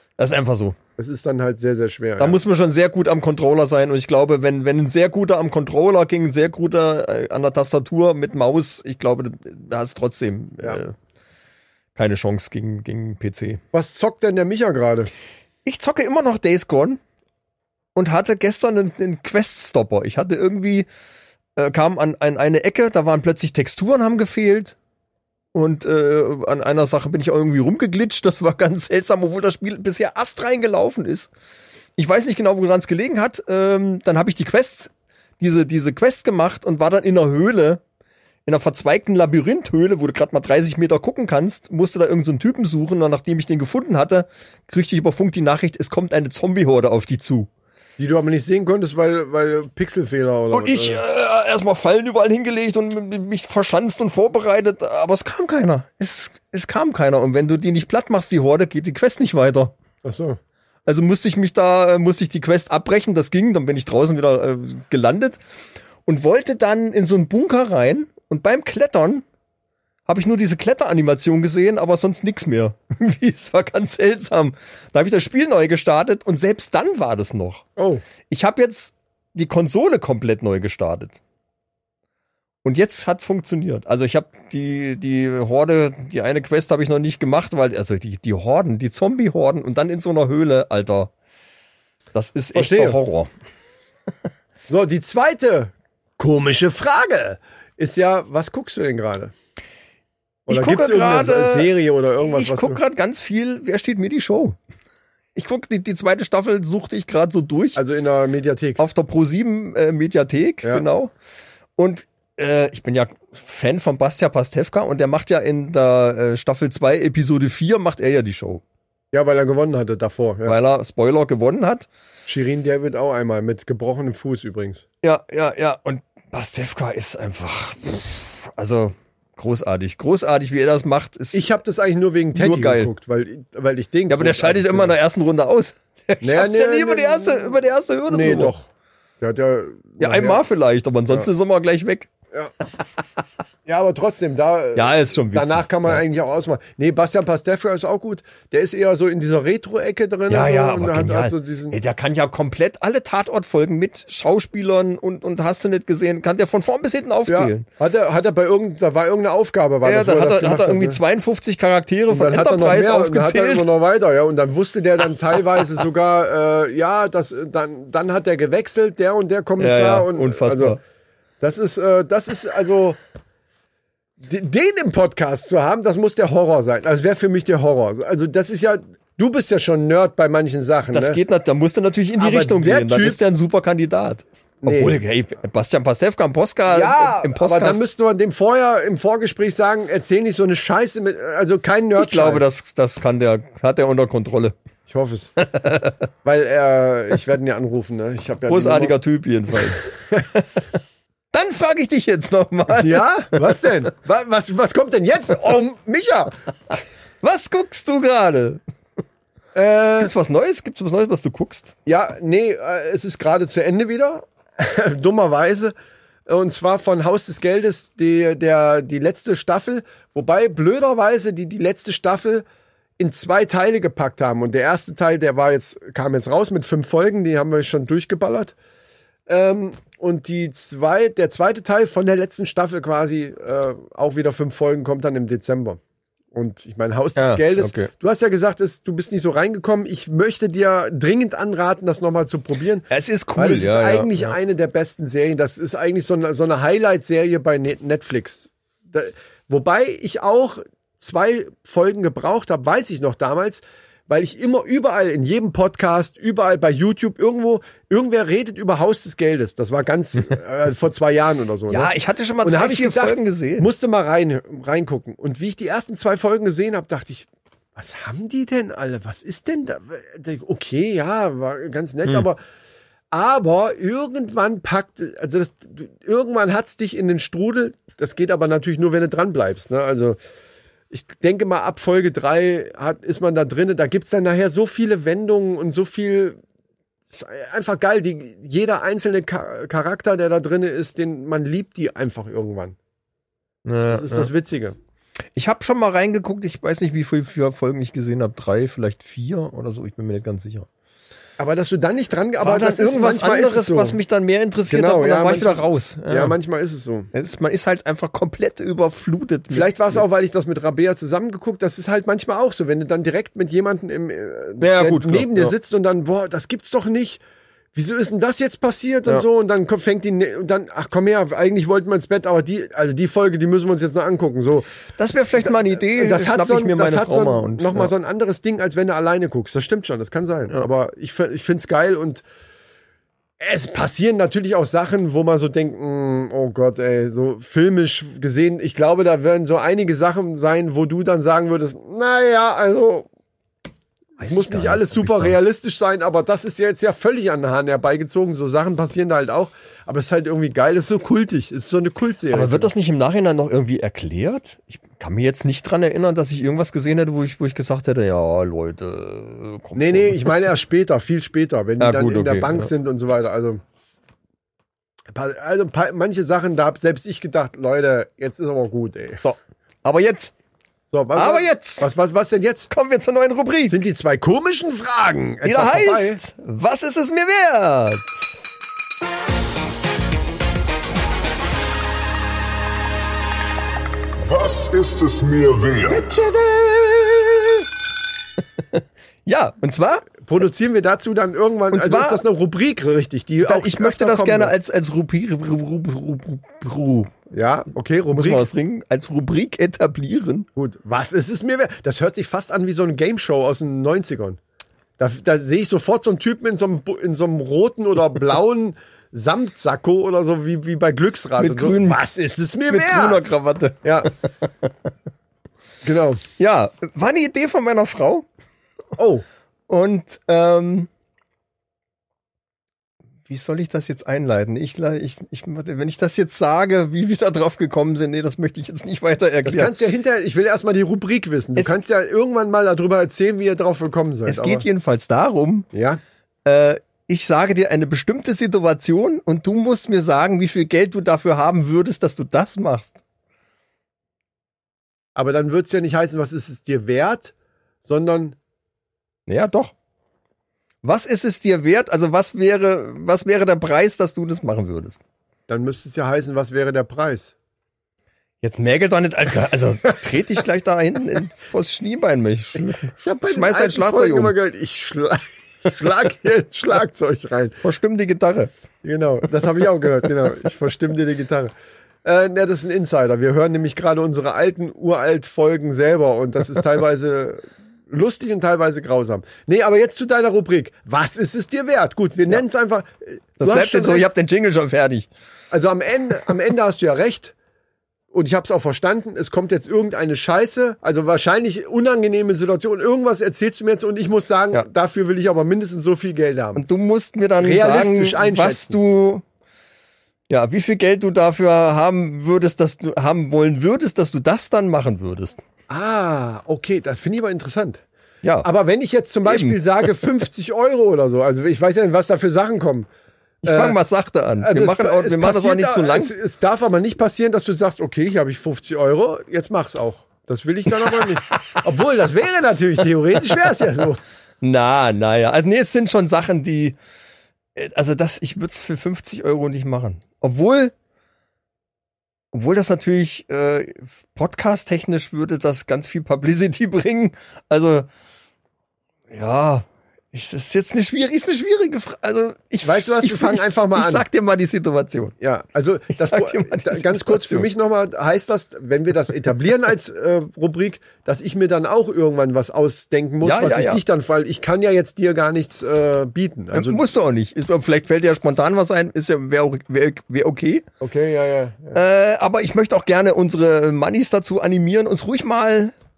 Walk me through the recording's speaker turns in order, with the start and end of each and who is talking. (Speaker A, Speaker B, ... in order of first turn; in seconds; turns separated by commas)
Speaker A: 0.2-0.8, Speaker B: 1.0-2.4, Speaker A: 2.2-10.9, Speaker A: 11.9-13.6, Speaker B: 13.7-15.1, Speaker A: 15.6-17.0, Speaker A: 17.9-20.9, Speaker A: 21.6-24.8, Speaker A: 25.5-31.3, Speaker A: 32.0-37.8, Speaker A: 38.5-47.5, Speaker B: 48.0-51.0, Speaker A: 50.5-59.7, Speaker B: 60.0-60.4, Speaker A: 60.9-65.4, Speaker A: 66.0-69.2, Speaker A: 70.1-77.7, Speaker B: 77.8-78.0, Speaker A: 78.3-81.2, Speaker A: 82.6-91.1, Speaker A: 92.1-93.3, Speaker B: 92.5-93.0, Speaker B: 94.7-99.3, Speaker B: 100.5-102.8, Speaker A: 100.5-101.7, Speaker A: 102.2-104.6, Speaker A: 105.3-107.8, Speaker B: 107.8-108.8, Speaker A: 108.8-111.1, Speaker A: 111.8-118.6, Speaker B: 119.1-120.6, Speaker A: 120.5-121.9, Speaker B: 122.2-124.8, Speaker A: 125.0-131.4, Speaker B: 131.3-134.9, Speaker A: 132.3-132.9, Speaker A: 134.1-138.5, Speaker B: 136.2-137.5, Speaker B: 138.1-138.7, Speaker B: 139.2-140.4, Speaker A: 140.0-142.1, Speaker B: 143.7-151.8, Speaker A: 144.7-146.0, Speaker A: 150.3-157.7, Speaker B: 157.3-161.0, Speaker A: 159.8-163.7, Speaker B: 162.1-170.8, Speaker A: 169.6-170.8, Speaker B: 171.4-173.0, Speaker B: 174.2-181.2, Speaker A: 180.9-187.8, Speaker B: 182.2-183.2, Speaker B: 184.6-185.0, Speaker B: 186.7-192.4, Speaker A: 192.0-194.5, Speaker B: 194.9-195.3, Speaker A: 195.4-196.0, Speaker B: 196.2-199.0, Speaker A: 198.5-200.5, Speaker B: 199.5-200.2, Speaker A: 201.3-203.5, Speaker B: 202.7-206.3, Speaker A: 207.2-208.6, Speaker B: 209.5-210.1, Speaker A: 210.0-211.7, Speaker B: 211.8-215.7, Speaker B: 216.2-222.4, Speaker B: 223.0-228.5, Speaker B: 229.3-235.8, Speaker B: 236.3-261.9, Speaker A: 237.2-237.9, Speaker A: 242.9-244.3, Speaker A: 261.7-263.7, Speaker B: 262.4-272.4, Speaker B: 273.1-280.2, Speaker B: 280.9-286.4, Speaker B: 287.1-292.8, Speaker A: 293.6-294.3, Speaker B: 293.9-294.8, Speaker A: 295.4-300.7, Speaker B: 301.4-304.0, Speaker A: 302.4-306.3, Speaker B: 304.7-307.1, Speaker A: 307.1-310.0, Speaker B: 309.5-317.2, Speaker A: 314.6-315.5, Speaker B: 317.7-324.7, Speaker A: 325.0-327.9, Speaker B: 325.4-332.2, Speaker B: 333.4-343.1, Speaker A: 344.2-345.4, Speaker B: 344.2-352.7, Speaker A: 352.3-360.3, Speaker B: 359.8-363.6, Speaker A: 361.8-362.7, Speaker B: 365.1-369.2, Speaker A: 369.2-370.3, Speaker B: 370.9-372.7, Speaker A: 371.1-371.9, Speaker A: 372.7-373.8, Speaker B: 373.7-376.2, Speaker A: 375.4-378.2, Speaker C: 384.2-386.1, Speaker B: 385.9-387.6, Speaker A: 388.7-390.1, Speaker B: 390.2-394.5, Speaker A: 391.7-392.2, Speaker A: 393.4-397.1, Speaker B: 397.3-398.5, Speaker A: 398.1-400.5, Speaker B: 400.6-404.4, Speaker B: 405.0-413.2, Speaker A: 411.4-412.0, Speaker A: 412.7-414.7, Speaker B: 413.8-414.1, Speaker B: 415.8-416.2, Speaker A: 416.4-418.3, Speaker B: 418.9-419.2, Speaker A: 419.7-420.9, Speaker A: 423.3-429.7, Speaker B: 429.4-434.6, Speaker A: 434.3-435.7, Speaker B: 435.7-436.0, Speaker A: 436.4-443.0, Speaker B: 445.1-448.4, Speaker A: 449.3-449.7, Speaker A: 450.8-455.0, Speaker B: 455.5-457.3, Speaker A: 458.4-464.3, Speaker B: 463.0-467.6, Speaker A: 467.6-468.5, Speaker B: 468.8-471.5, Speaker B: 472.0-484.1, Speaker A: 483.4-485.1, Speaker B: 485.5-487.3, Speaker B: 488.1-496.6, Speaker A: 496.6-499.2, Speaker B: 497.4-498.8, Speaker A: 500.3-505.4, Speaker B: 505.7-507.8, Speaker A: 508.2-508.5, Speaker B: 508.4-512.9, Speaker A: 509.2-510.0, Speaker A: 513.4-516.1, Speaker B: 513.4-513.8, Speaker B: 514.4-524.0, Speaker A: 524.4-526.8, Speaker A: 527.5-530.7, Speaker A: 532.3-537.9, Speaker A: 539.1-545.1, Speaker B: 542.6-544.0, Speaker B: 545.2-556.9, Speaker A: 545.9-547.5, Speaker A: 553.2-553.8, Speaker A: 556.5-560.6, Speaker B: 560.8-561.8, Speaker A: 561.7-565.7